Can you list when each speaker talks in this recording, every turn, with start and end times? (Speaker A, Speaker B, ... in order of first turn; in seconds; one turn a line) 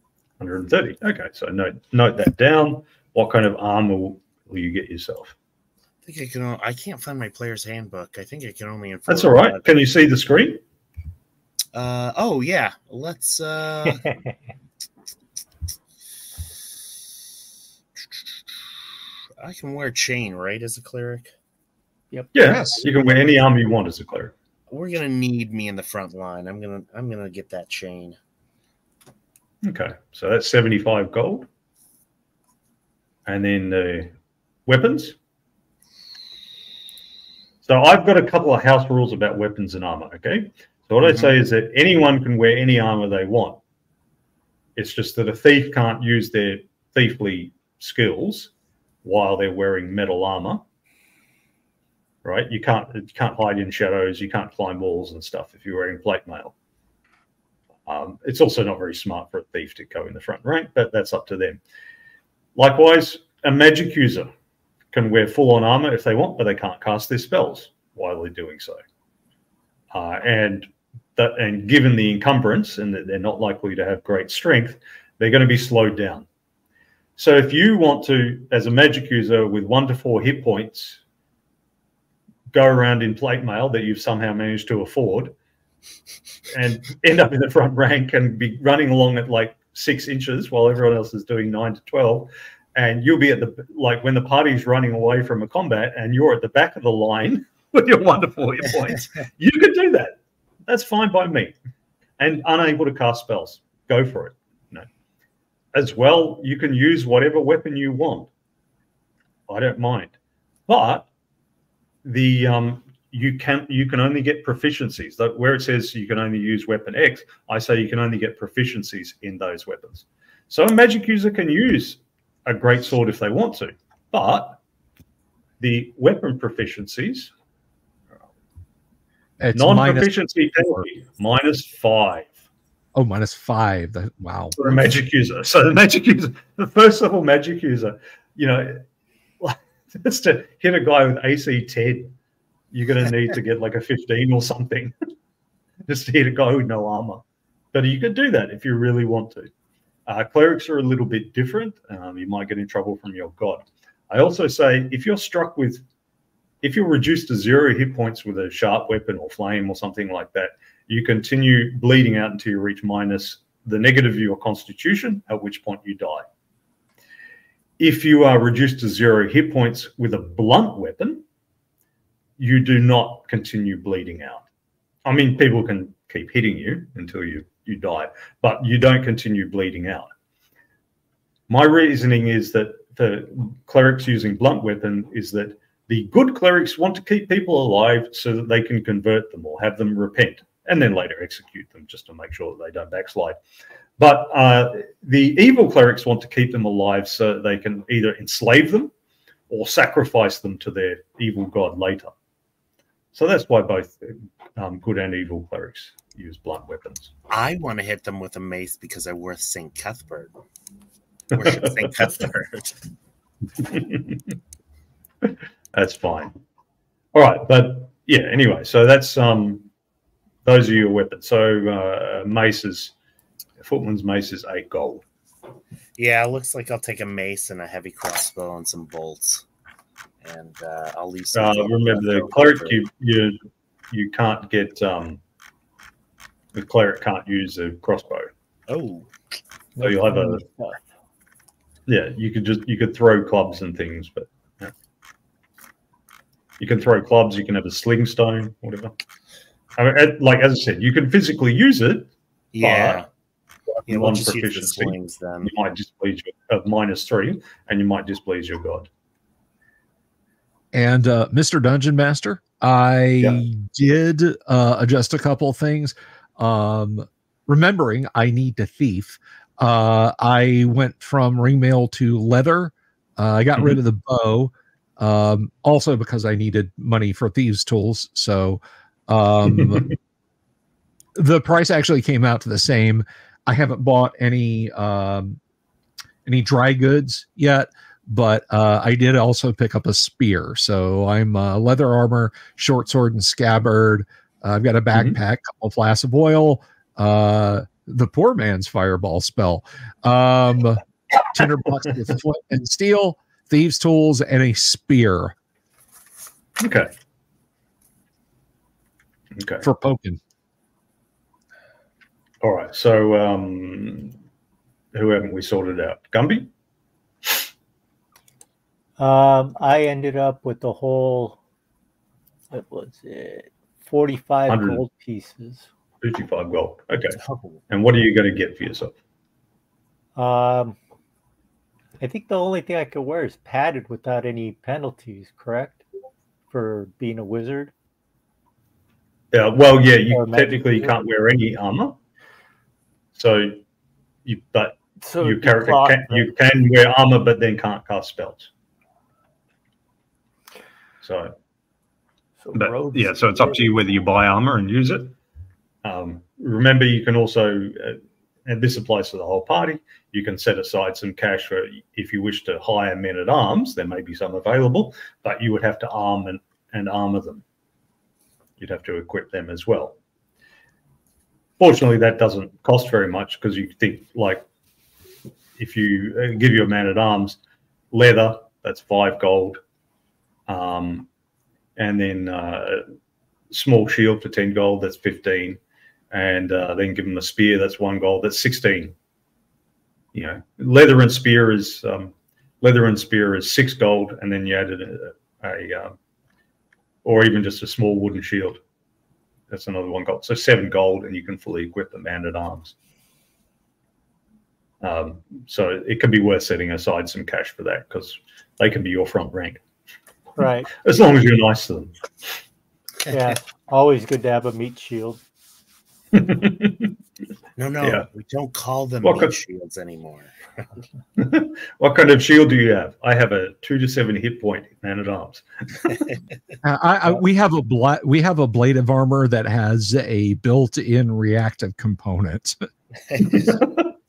Speaker A: 0.4-5.3
Speaker B: 6.0-9.7
Speaker A: 9.1-10.6
Speaker B: 11.7-14.2
Speaker B: 19.4-21.3
Speaker A: 22.3-24.3
Speaker C: 22.4-22.8
Speaker D: 22.9-23.3
Speaker B: 24.7-28.2
Speaker A: 29.6-31.5
Speaker A: 33.2-34.1
Speaker A: 34.6-35.2
Speaker A: 37.6-43.6
Speaker B: 41.0-41.3
Speaker A: 44.8-48.5
Speaker A: 49.0-50.6
Speaker A: 52.2-56.5
Speaker A: 57.9-61.6
Speaker A: 62.5-64.3
Speaker A: 64.9-68.8
Speaker A: 69.9-76.3
Speaker A: 77.2-81.0
Speaker A: 82.5-85.3
Speaker A: 86.5-101.5
Speaker A: 102.2-104.9
Speaker A: 105.7-108.3
Speaker A: 109.5-110.1
Speaker A: 110.7-111.1
Speaker A: 112.0-124.6
Speaker A: 125.6-127.3
Speaker C: 129.4-130.8
Speaker A: 129.5-132.4
Speaker C: 132.9-134.7
Speaker A: 134.6-138.8
Speaker A: 139.4-142.1
Speaker A: 142.7-144.9
Speaker A: 145.8-149.5
Speaker A: 150.1-155.8
Speaker A: 156.6-166.2
Speaker A: 167.8-171.2
Speaker A: 172.4-174.4
Speaker A: 175.0-180.1
Speaker A: 181.5-193.4
Speaker A: 194.0-198.9
Speaker A: 199.5-202.1
Speaker A: 203.1-207.1
Speaker B: 207.3-210.3
Speaker A: 211.3-211.9
Speaker B: 211.3-212.7
Speaker A: 213.6-214.2
Speaker A: 215.2-216.4
Speaker A: 217.1-219.7
Speaker A: 220.4-222.9
Speaker A: 223.6-225.0
Speaker B: 226.0-229.4
Speaker B: 230.2-232.8
Speaker A: 231.3-233.4
Speaker A: 233.9-235.2
Speaker A: 236.5-238.3
Speaker B: 238.7-239.1
Speaker D: 239.8-240.8
Speaker A: 239.8-240.4
Speaker A: 241.9-244.7
Speaker A: 246.6-248.9
Speaker A: 249.8-252.1
Speaker B: 252.5-253.1
Speaker A: 252.6-253.0
Speaker A: 253.7-258.9
Speaker B: 253.9-255.5
Speaker C: 260.7-279.9
Speaker A: 279.5-279.7
Speaker C: 281.2-285.4
Speaker C: 286.2-305.3
Speaker A: 294.9-295.2
Speaker A: 306.6-306.9
Speaker A: 309.3-309.6
Speaker C: 309.6-310.2
Speaker A: 312.4-314.1
Speaker A: 314.9-316.5
Speaker D: 319.0-321.4
Speaker D: 322.5-325.7
Speaker A: 324.5-324.8
Speaker A: 326.0-327.2
Speaker B: 327.2-327.6
Speaker A: 327.7-328.9
Speaker D: 330.1-330.8
Speaker D: 332.0-335.8
Speaker D: 336.5-337.7
Speaker A: 339.3-342.0
Speaker D: 340.1-341.0
Speaker A: 343.1-343.6
Speaker A: 344.2-348.5
Speaker D: 345.0-346.2
Speaker A: 351.0-351.3
Speaker D: 352.4-353.7
Speaker A: 352.5-355.1
Speaker A: 355.8-367.4
Speaker A: 368.6-370.0
Speaker A: 371.6-374.4
Speaker A: 375.6-377.4
Speaker A: 377.9-379.6
Speaker A: 380.5-381.1
Speaker A: 381.8-382.8
Speaker A: 383.5-385.6
Speaker A: 386.1-388.9
Speaker A: 390.1-395.9
Speaker A: 397.0-398.6
Speaker A: 399.5-402.7
Speaker A: 404.8-409.6
Speaker D: 410.4-410.7
Speaker A: 410.7-411.9
Speaker B: 413.0-413.3
Speaker D: 413.1-415.2
Speaker A: 416.1-416.9
Speaker B: 417.6-420.7
Speaker A: 417.8-418.1
Speaker A: 419.0-419.4
Speaker A: 421.2-425.4
Speaker C: 426.6-432.6
Speaker B: 433.1-433.6
Speaker A: 433.4-433.9